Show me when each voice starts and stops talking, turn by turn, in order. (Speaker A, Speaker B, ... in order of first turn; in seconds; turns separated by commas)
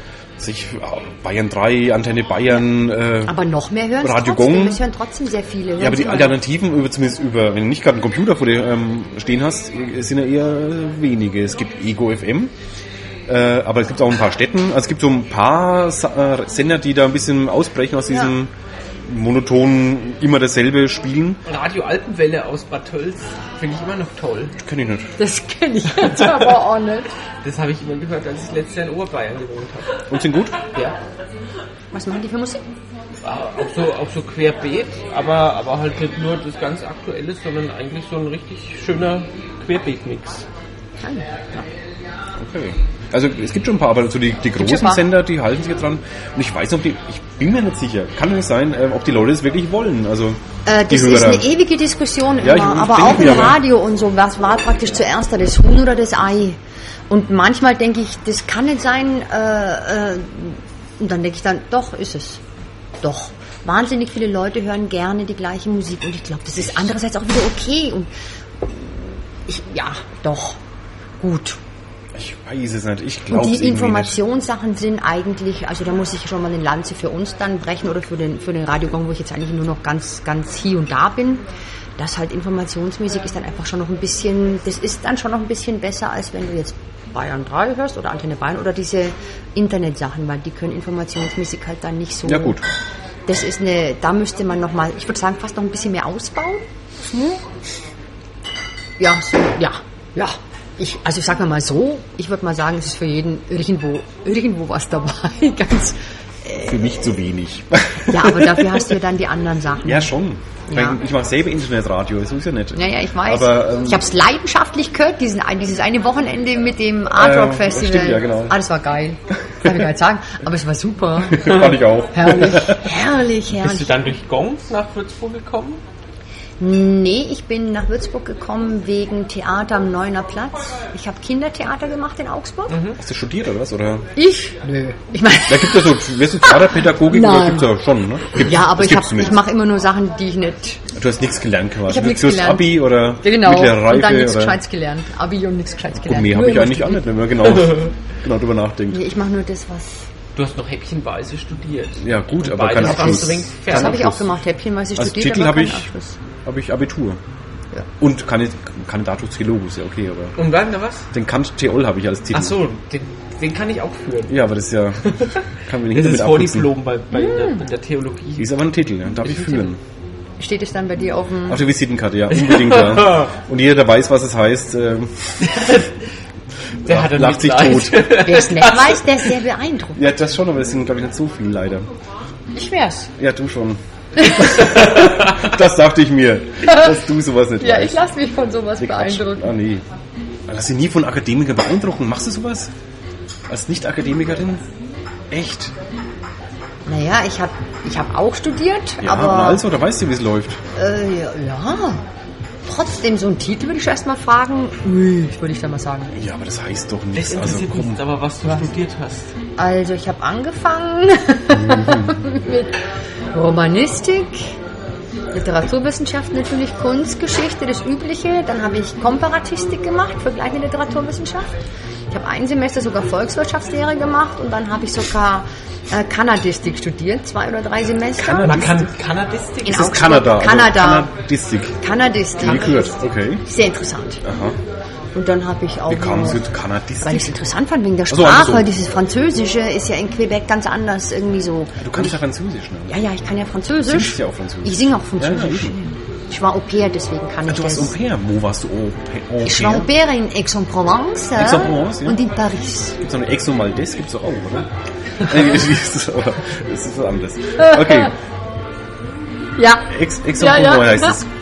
Speaker A: 0.4-3.3, Speaker B: 3.2-6.3, Speaker A: 4.0-4.8, Speaker A: 5.8-12.5, Speaker A: 13.3-18.5, Speaker A: 19.0-21.4, Speaker C: 21.4-24.5, Speaker A: 24.6-25.1, Speaker B: 25.2-27.1, Speaker C: 26.1-26.4, Speaker C: 27.4-29.9, Speaker A: 30.1-30.6, Speaker B: 31.9-32.6, Speaker C: 33.2-40.5, Speaker B: 41.0-41.6, Speaker A: 42.4-51.5, Speaker B: 44.6-45.0, Speaker B: 50.6-56.6, Speaker A: 52.4-53.6, Speaker B: 57.1-62.4, Speaker B: 63.0-68.1, Speaker A: 66.6-66.9, Speaker B: 68.6-70.6, Speaker B: 71.2-71.6, Speaker A: 72.1-74.1, Speaker B: 73.3-81.4, Speaker B: 82.0-92.5, Speaker A: 92.3-92.6, Speaker B: 93.3-97.4, Speaker B: 99.0-106.9, Speaker A: 106.6-108.7, Speaker B: 108.1-110.1, Speaker A: 109.8-114.0, Speaker B: 110.7-111.0, Speaker B: 112.8-123.9, Speaker A: 117.1-118.5, Speaker A: 121.3-122.9, Speaker C: 123.5-125.8, Speaker B: 126.6-132.8, Speaker C: 132.7-133.0, Speaker A: 133.0-134.1, Speaker B: 134.2-137.7, Speaker A: 135.5-139.4, Speaker B: 138.3-140.8, Speaker A: 140.9-144.6, Speaker B: 141.9-147.1, Speaker A: 146.0-149.0, Speaker B: 148.9-150.1, Speaker C: 150.3-154.1, Speaker A: 152.0-154.2, Speaker B: 152.8-156.2, Speaker A: 154.9-155.9, Speaker A: 156.4-157.2, Speaker A: 158.0-160.3, Speaker C: 160.3-161.1, Speaker A: 161.1-162.6, Speaker C: 162.3-164.4, Speaker A: 164.3-166.7, Speaker C: 165.1-168.5, Speaker B: 167.1-167.6, Speaker A: 168.4-169.8, Speaker B: 170.4-171.6, Speaker A: 171.5-175.5, Speaker C: 172.3-173.3, Speaker C: 175.4-176.0, Speaker A: 176.8-178.2, Speaker C: 176.8-179.0, Speaker B: 178.1-180.0, Speaker A: 180.0-181.8, Speaker B: 182.5-183.1, Speaker A: 183.2-188.0, Speaker B: 184.2-184.5, Speaker B: 187.6-189.5, Speaker A: 188.8-189.8, Speaker A: 190.5-192.7, Speaker A: 193.5-194.6, Speaker A: 195.3-195.7, Speaker B: 196.8-199.6, Speaker A: 199.0-200.6, Speaker B: 200.7-202.1, Speaker B: 202.6-206.1, Speaker A: 206.1-208.0, Speaker C: 207.1-209.3, Speaker B: 209.6-212.8, Speaker A: 211.6-212.1, Speaker B: 213.3-214.5, Speaker B: 215.3-221.5, Speaker B: 222.1-228.8, Speaker C: 228.2-230.1, Speaker A: 228.4-228.7, Speaker B: 229.6-231.1, Speaker A: 229.7-231.8, Speaker B: 231.8-234.2, Speaker A: 232.4-233.4, Speaker A: 234.2-234.6, Speaker B: 235.1-236.4, Speaker A: 235.9-237.3, Speaker B: 237.0-242.2, Speaker A: 238.1-238.7, Speaker A: 241.8-242.9, Speaker B: 242.9-247.9, Speaker A: 243.8-245.8, Speaker A: 247.5-249.9, Speaker B: 249.4-253.0, Speaker A: 251.4-252.2, Speaker A: 253.0-254.7, Speaker A: 255.2-258.1, Speaker B: 257.6-258.1, Speaker B: 259.6-261.2, Speaker A: 259.9-261.2